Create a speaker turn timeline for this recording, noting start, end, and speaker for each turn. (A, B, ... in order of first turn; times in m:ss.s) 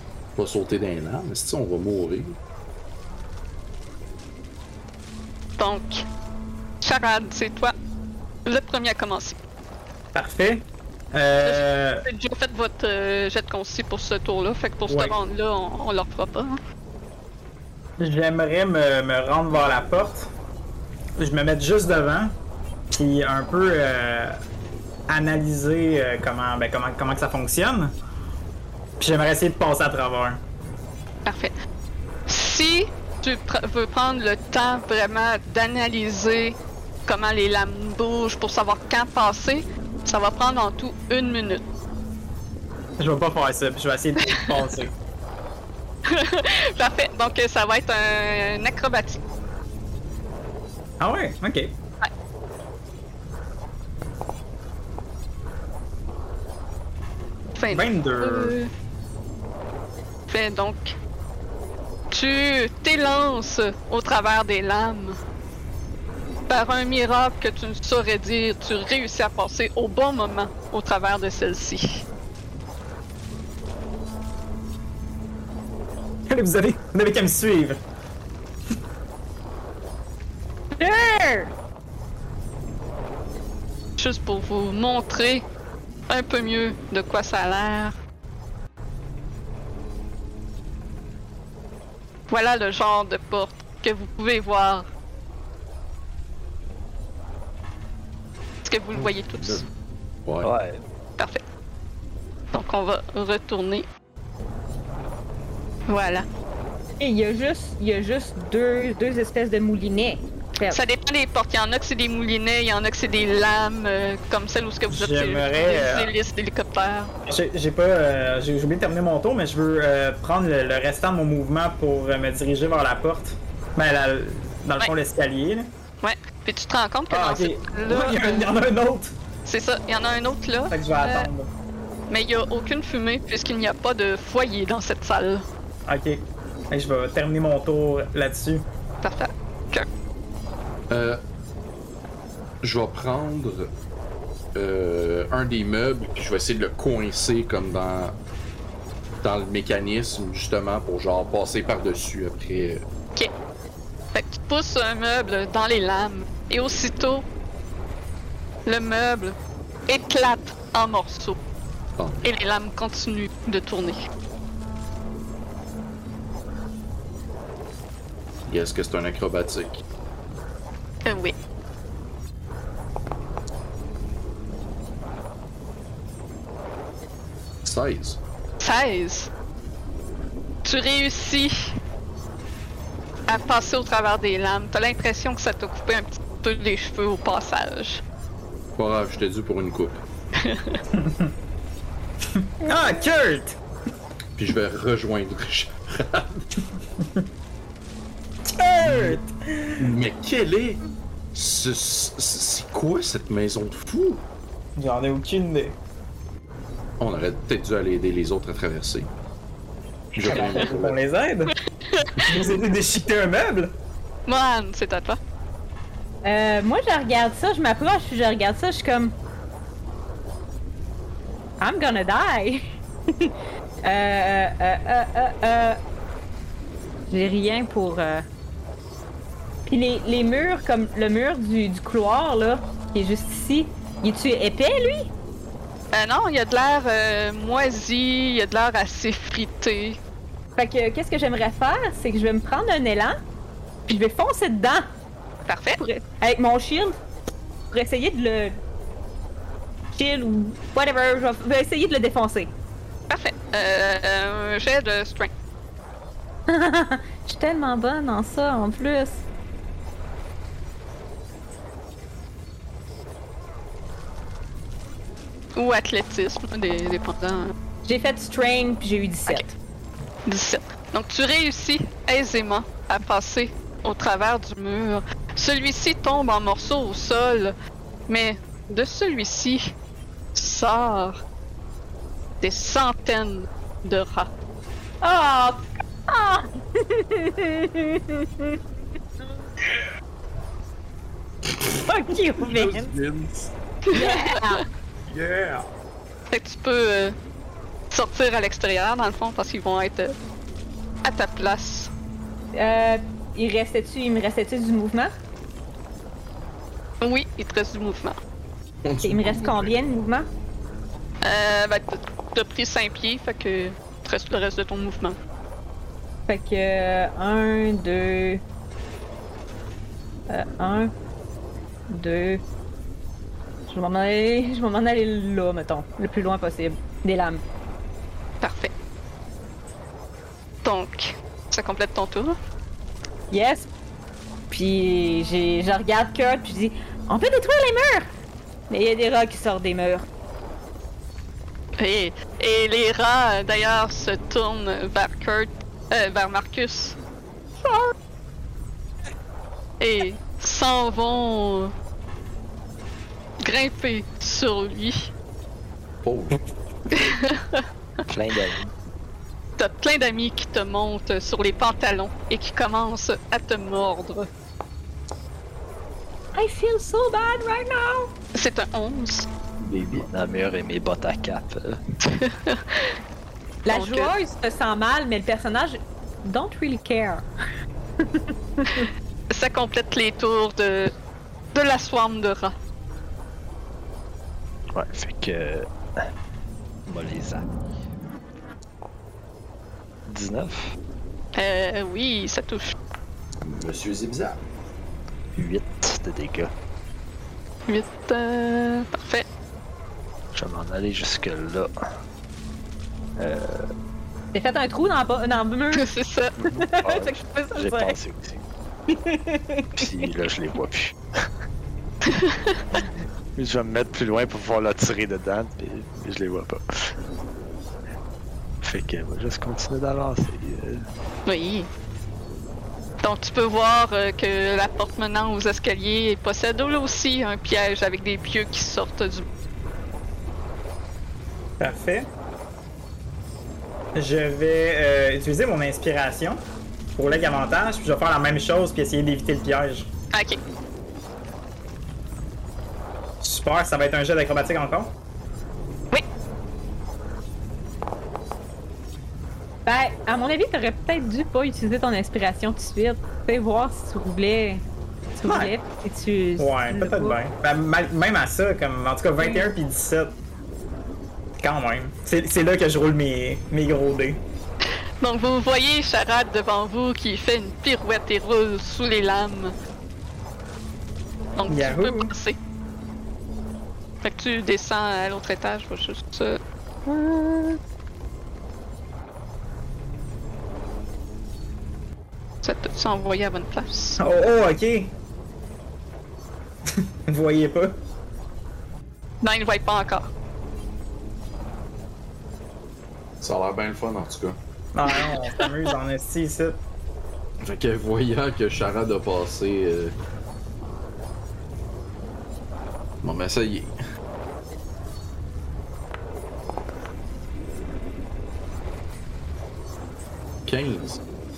0:00.4-0:02.4 A
0:05.6-0:06.0 B
0:06.8-0:07.7 B
0:08.4-0:09.4 B
0:10.1-0:12.0 C
0:11.4-0:16.6 B
0:14.9-0:15.1 C
0:18.0-0:20.3 C
0:21.2-0:22.4 C
0:22.9-0:24.4 C
0:25.1-0:28.0 C
0:29.0-0:30.4 C
0:31.2-0:31.5 B
0:32.3-0:41.6 B
0:43.0-0:44.9 C
0:44.2-0:44.5 B
0:46.0-0:49.2 B
0:51.0-0:51.7 C
0:57.6-0:58.7 B
0:57.7-0:58.6 C
1:00.3-1:00.9 B
1:02.1-1:05.2 B
1:06.5-1:12.0 B
1:16.3-1:17.8 C
1:20.8-1:21.5 D
1:24.0-1:25.4 B
1:26.1-1:27.9 B
1:32.3-1:34.9 B
1:38.6-1:39.6 B
1:39.0-1:39.6 A
1:40.2-1:40.5 A
1:40.4-1:40.8 E
1:42.5-1:43.8 B
1:45.9-1:46.3 B
1:47.0-1:50.8 D
1:50.7-1:57.1 B
1:54.9-1:56.1 C
1:57.3-2:05.7 C
2:06.0-2:08.4 B
2:07.1-2:09.1 C
2:09.4-2:11.3 B
2:10.7-2:11.5 C
2:12.1-2:15.4 B
2:15.9-2:18.6 C
2:19.0-2:19.9 B
2:20.9-2:21.2 A
2:22.6-2:23.7 A
2:24.5-2:28.2 A
2:29.2-2:32.8 A
2:34.1-2:37.2 B
2:38.6-2:39.3 B
2:39.9-2:41.4 B
2:42.0-2:42.3 A
2:42.2-2:44.1 B
2:48.5-2:49.8 A
2:51.0-2:51.4 B
2:57.6-2:58.2 A
2:58.6-2:59.3 B
3:00.6-3:01.7 B
3:03.3-3:08.0 B
3:08.8-3:10.0 A
3:10.4-3:10.8 B
3:10.9-3:11.3 C
3:12.3-3:13.6 C
3:14.4-3:16.5 A
3:18.5-3:20.0 C
3:18.8-3:19.2 A
3:19.8-3:20.8 A
3:21.3-3:24.2 A
3:24.8-3:25.8 C
3:27.0-3:29.1 A
3:30.1-3:31.0 A
3:30.2-3:31.5 C
3:30.3-3:30.6 B
3:31.9-3:32.4 B
3:32.2-3:33.8 C
3:34.3-3:35.2 B
3:36.2-3:39.2 D
3:41.6-3:42.6 D
3:43.1-3:45.8 D
3:47.1-3:48.2 D
3:49.6-3:55.1 D
3:55.9-4:00.0 B
4:00.6-4:03.2 D
4:03.9-4:04.9 D
4:05.4-4:05.8 B
4:05.8-4:07.0 D
4:07.7-4:08.6 D
4:09.9-4:12.5 D
4:13.1-4:15.3 B
4:16.5-4:19.2 D
4:25.6-4:27.5 B
4:27.8-4:29.5 D
4:30.3-4:37.5 B
4:38.1-4:39.7 B
4:40.3-4:41.2 B
4:42.4-4:44.3 B
4:45.0-4:48.6 D
4:51.5-4:51.8 A
4:51.9-4:52.9 D
4:52.4-4:53.5 A
4:53.9-4:54.6 B
4:53.9-4:54.6 D
4:55.1-4:55.6 C
4:56.3-4:57.1 B
4:57.9-5:00.1 B
5:01.0-5:01.9 B
5:02.5-5:05.1 D
5:07.0-5:08.2 B
5:08.8-5:09.8 A
5:09.0-5:10.3 D
5:11.2-5:15.2 B
5:16.3-5:18.4 D
5:20.3-5:20.9 D
5:21.9-5:22.4 D
5:23.7-5:27.4 D
5:28.4-5:28.7 B
5:30.6-5:32.4 B
5:33.3-5:33.7 D
5:34.5-5:38.1 D
5:38.7-5:40.0 D
5:41.8-5:47.0 B
5:47.6-5:47.9 B
5:49.8-5:51.7 B
5:53.4-5:55.1 B
5:56.0-5:56.4 A
5:56.9-5:57.6 B
5:58.1-5:58.7 E
5:59.6-6:04.3 B
6:06.3-6:08.1 D
6:08.3-6:09.3 B
6:09.6-6:10.0 A
6:09.8-6:11.8 E
6:12.0-6:12.9 B
6:13.6-6:17.2 D
6:13.7-6:14.1 B
6:18.0-6:18.9 D
6:19.3-6:20.9 B
6:21.5-6:22.5 B
6:24.7-6:26.0 E
6:26.9-6:27.4 E
6:30.1-6:30.7 E
6:31.3-6:32.7 B
6:33.4-6:34.4 A
6:35.4-6:36.5 E
6:37.7-6:39.2 B
6:40.3-6:41.7 E
6:44.3-6:45.9 D
6:45.7-6:46.3 B
6:46.4-6:48.4 E
6:46.4-6:48.0 D
6:48.9-6:49.8 D
6:49.8-6:51.0 E
6:52.0-6:52.6 B
6:53.4-6:56.9 E
6:58.6-7:00.8 E
7:01.2-7:01.7 B
7:03.0-7:09.2 B
7:11.6-7:12.1 C
7:13.9-7:16.4 C
7:17.0-7:19.9 C
7:20.1-7:20.4 B
7:23.2-7:24.9 C
7:29.6-7:34.6 D
7:35.2-7:37.2 D
7:35.2-7:35.5 C
7:36.4-7:40.1 C
7:39.2-7:39.5 D
7:41.4-7:44.2 C
7:44.7-7:49.5 B
7:51.4-7:52.4 B
7:51.4-7:52.1 C
7:54.0-7:56.4 B
7:56.9-7:57.6 D
8:02.4-8:04.0 B
8:04.0-8:04.9 C
8:06.8-8:07.8 C
8:09.2-8:10.1 B
8:13.2-8:14.4 A
8:14.7-8:16.6 C
8:14.9-8:15.4 B
8:17.4-8:19.9 A
8:23.0-8:23.8 A
8:30.4-8:31.0 A